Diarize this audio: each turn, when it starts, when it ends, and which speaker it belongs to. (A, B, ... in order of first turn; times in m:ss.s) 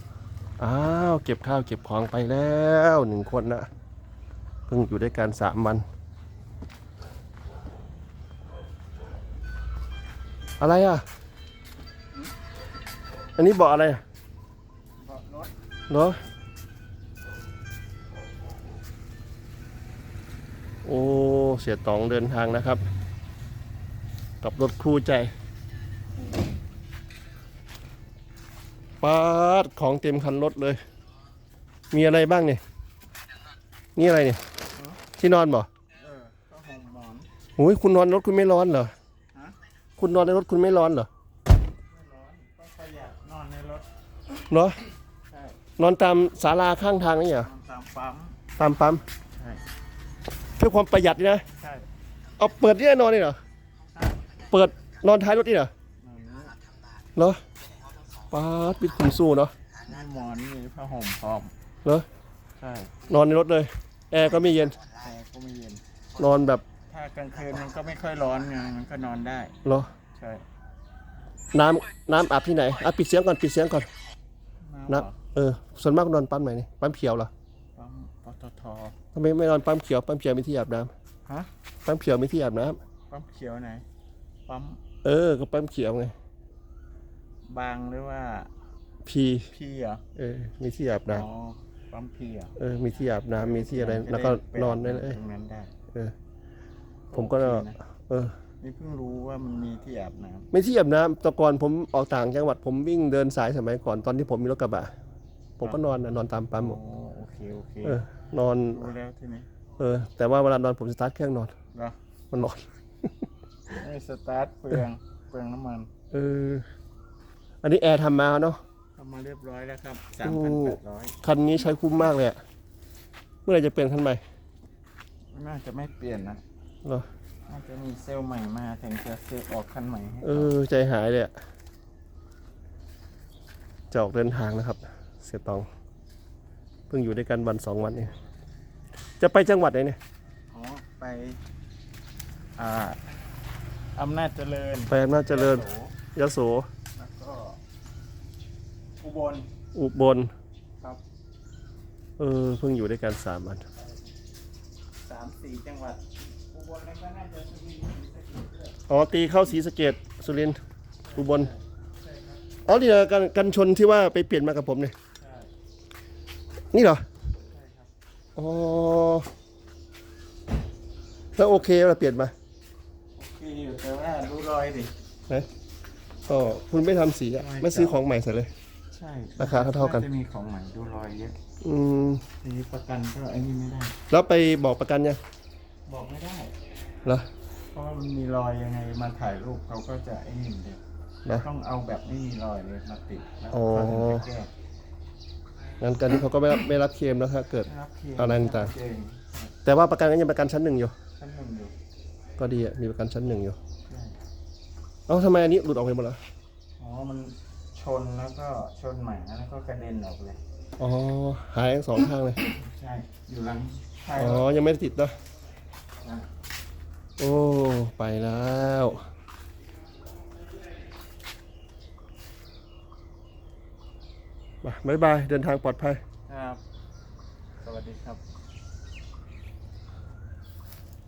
0:00.6-0:03.7 A
0:04.7-0:05.8 A
0:10.6-0:11.0 A
0:13.4-0:14.0 A
0:15.0-0:15.5 B
0:15.9-0:16.2 A
0:20.8-0:22.8 A
0:24.4-0:25.3 A
0:29.0-0:30.8 A
0:31.9-0:32.6 A
0:34.0-0:34.4 A
0:34.7-0:35.0 B
0:35.2-0:35.7 A
0:35.9-0:37.3 B
0:37.6-0:38.9 A
0:40.0-0:41.1 A
0:41.9-0:43.8 B
0:44.5-0:44.8 A
0:45.3-0:45.6 B
0:45.8-0:47.5 A
0:47.4-0:48.4 B
0:48.6-0:49.0 A
0:49.3-0:49.6 B
0:50.6-0:51.4 A
0:51.6-0:51.8 B
0:52.4-0:53.4 A
0:53.9-0:54.3 B
0:54.5-0:55.7 A
0:56.0-0:56.6 B
0:57.2-0:57.4 A
0:58.3-0:59.5 A
0:59.8-1:01.5 B
1:02.6-1:02.9 B
1:03.1-1:04.8 A
1:04.9-1:05.8 B
1:06.2-1:06.6 A
1:06.9-1:09.6 B
1:09.6-1:09.9 A
1:10.2-1:10.4 B
1:11.5-1:13.9 A
1:14.6-1:15.2 B
1:14.9-1:17.3 A
1:17.8-1:19.0 B
1:19.1-1:20.9 A
1:21.8-1:22.8 A
1:23.1-1:23.8 B
1:24.5-1:24.8 B
1:25.0-1:26.1 A
1:27.5-1:28.5 B
1:29.0-1:29.5 A
1:29.5-1:30.0 B
1:30.2-1:31.2 A
1:31.1-1:32.5 B
1:32.6-1:35.2 A
1:33.3-1:35.7 B
1:37.1-1:37.8 B
1:37.1-1:38.3 A
1:38.6-1:40.5 B
1:40.5-1:44.9 A
1:45.6-1:46.8 A
1:46.6-1:48.1 B
1:47.8-1:48.9 A
1:48.7-1:49.5 B
1:49.8-1:51.5 A
1:52.3-1:53.1 A
1:53.7-1:55.9 B
1:56.1-1:56.6 A
1:57.6-1:58.6 A
1:59.0-2:01.2 B
2:00.2-2:02.4 A
2:03.4-2:04.2 A
2:05.3-2:06.4 B
2:07.5-2:10.5 B
2:10.2-2:11.3 A
2:13.9-2:15.7 A
2:16.9-2:18.1 A
2:19.2-2:20.0 A
2:20.5-2:21.4 B
2:22.6-2:23.0 B
2:24.0-2:25.9 B
2:24.9-2:26.7 A
2:26.9-2:27.6 B
2:29.0-2:29.5 B
2:29.7-2:30.3 A
2:32.2-2:33.6 A
2:35.0-2:38.8 B
2:38.9-2:40.6 A
2:41.0-2:42.4 B
2:41.1-2:41.5 A
2:42.6-2:44.9 A
2:45.2-2:45.5 B
2:46.7-2:47.0 A
2:47.4-2:47.9 B
2:48.4-2:49.3 A
2:51.4-2:52.3 A
2:53.2-2:54.9 B
2:56.3-2:58.5 A
2:57.4-2:58.0 B
2:58.9-3:01.4 B
2:59.4-3:00.1 A
3:01.6-3:02.2 A
3:02.4-3:04.0 B
3:04.1-3:05.2 A
3:05.9-3:06.5 B
3:07.7-3:14.5 B
3:13.5-3:14.2 A
3:15.8-3:18.7 A
3:17.6-3:19.5 B
3:19.6-3:20.9 A
3:21.2-3:21.7 B
3:22.4-3:23.6 A
3:23.9-3:24.2 B
3:25.1-3:26.2 A
3:26.8-3:30.4 B
3:30.8-3:32.4 A
3:32.4-3:34.4 B
3:34.2-3:35.1 A
3:37.2-3:39.0 A
3:44.6-3:46.0 A
3:46.3-3:46.6 B
3:47.6-3:48.2 B